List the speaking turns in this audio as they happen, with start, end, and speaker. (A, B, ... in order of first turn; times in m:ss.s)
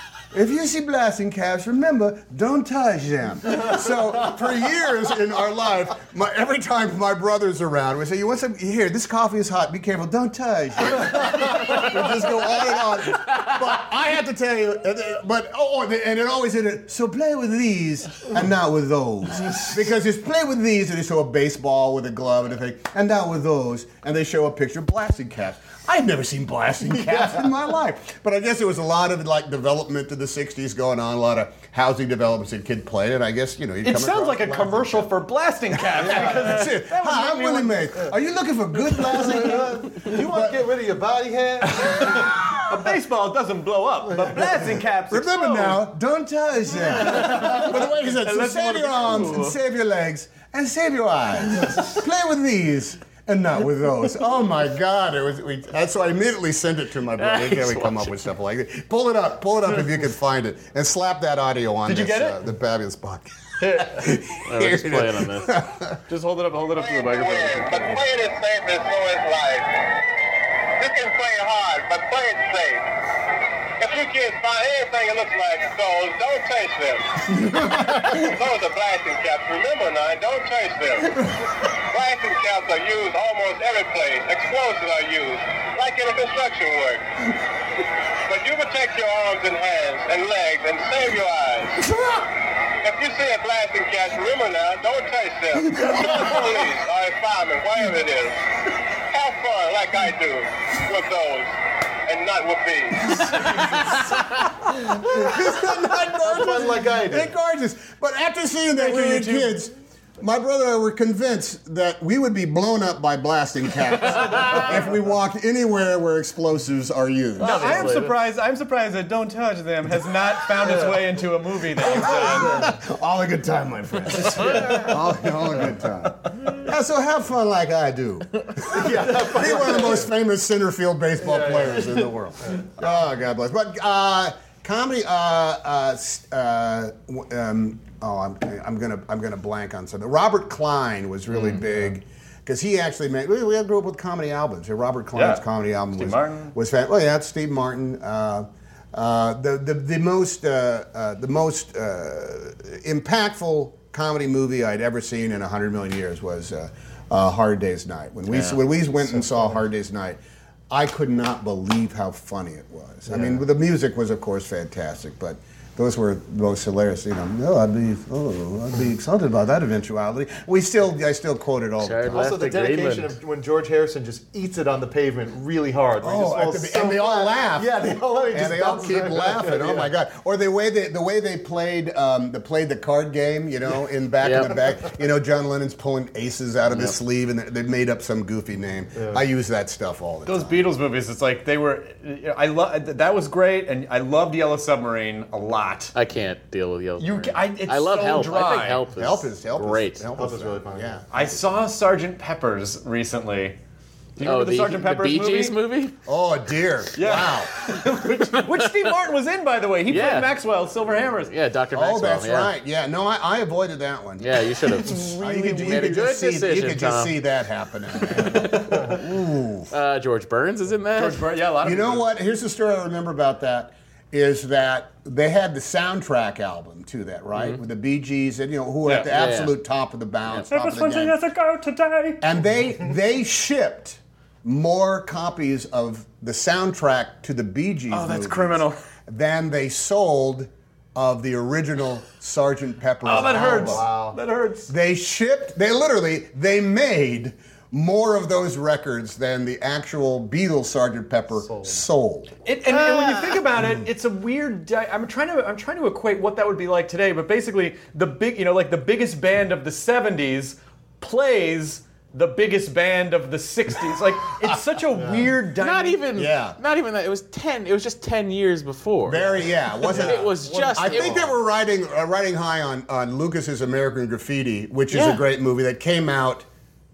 0:00.3-0:35.1 A
0:33.8-0:38.1 B
0:35.7-0:40.6 A
0:36.0-0:36.5 C
0:39.1-0:42.4 C
0:41.8-0:42.6 A
0:42.7-0:45.9 B
0:45.1-1:06.0 A
0:46.9-0:49.6 B
0:57.2-0:58.3 D
1:01.9-1:02.4 B
1:04.4-1:05.5 D
1:06.1-1:08.0 B
1:06.8-1:09.7 E
1:10.8-1:12.9 E
1:13.8-1:21.2 E
1:17.5-1:18.0 A
1:21.9-1:27.0 E
1:28.3-1:31.8 E
1:32.8-1:38.4 E
1:39.0-1:41.5 E
1:42.1-1:43.2 E
1:43.2-1:58.0 A
1:46.2-1:47.3 C
1:48.8-1:49.6 B
1:54.3-1:54.6 D
1:57.4-2:02.7 B
1:57.4-1:58.1 D
2:01.9-2:40.2 A
2:02.0-2:02.7 C
2:04.5-2:04.8 C
2:08.7-2:10.1 C
2:11.2-2:12.7 C
2:25.2-2:25.4 B
2:25.9-2:26.5 B
2:39.2-2:39.6 C
2:40.7-2:52.4 A
2:43.1-2:43.4 C
2:51.8-2:53.2 D
2:52.1-2:59.9 C
2:56.0-3:10.6 A
3:04.2-3:04.5 D
3:09.0-3:09.2 C
3:10.3-3:15.9 B
3:15.9-3:20.1 D
3:17.0-3:18.8 B
3:19.0-3:21.1 A
3:20.2-3:21.0 C
3:21.1-3:23.6 B
3:24.2-3:25.6 B
3:24.2-3:26.0 D
3:26.1-3:27.5 A
3:27.0-3:31.3 B
3:28.3-3:28.7 D
3:29.9-3:30.3 D
3:31.2-3:32.5 D
3:31.7-3:39.7 A
3:34.2-3:37.2 D
3:34.9-3:35.2 B
3:38.0-3:39.0 D
3:39.7-3:41.2 D
3:41.0-3:42.1 B
3:41.6-3:51.2 A
3:48.8-3:49.1 B
3:49.1-3:49.5 D
3:50.5-3:52.2 B
3:52.2-4:03.8 A
3:57.9-3:58.8 B
4:03.0-4:04.7 B
4:03.2-4:04.2 C
4:04.7-4:12.3 A
4:11.4-4:11.8 C
4:12.4-4:26.1 B
4:12.9-4:13.4 D
4:13.5-4:13.9 A
4:24.9-4:25.4 C
4:25.6-4:31.4 D
4:26.2-4:26.6 A
4:29.1-4:36.5 A
4:29.9-4:31.3 C
4:34.9-4:35.2 D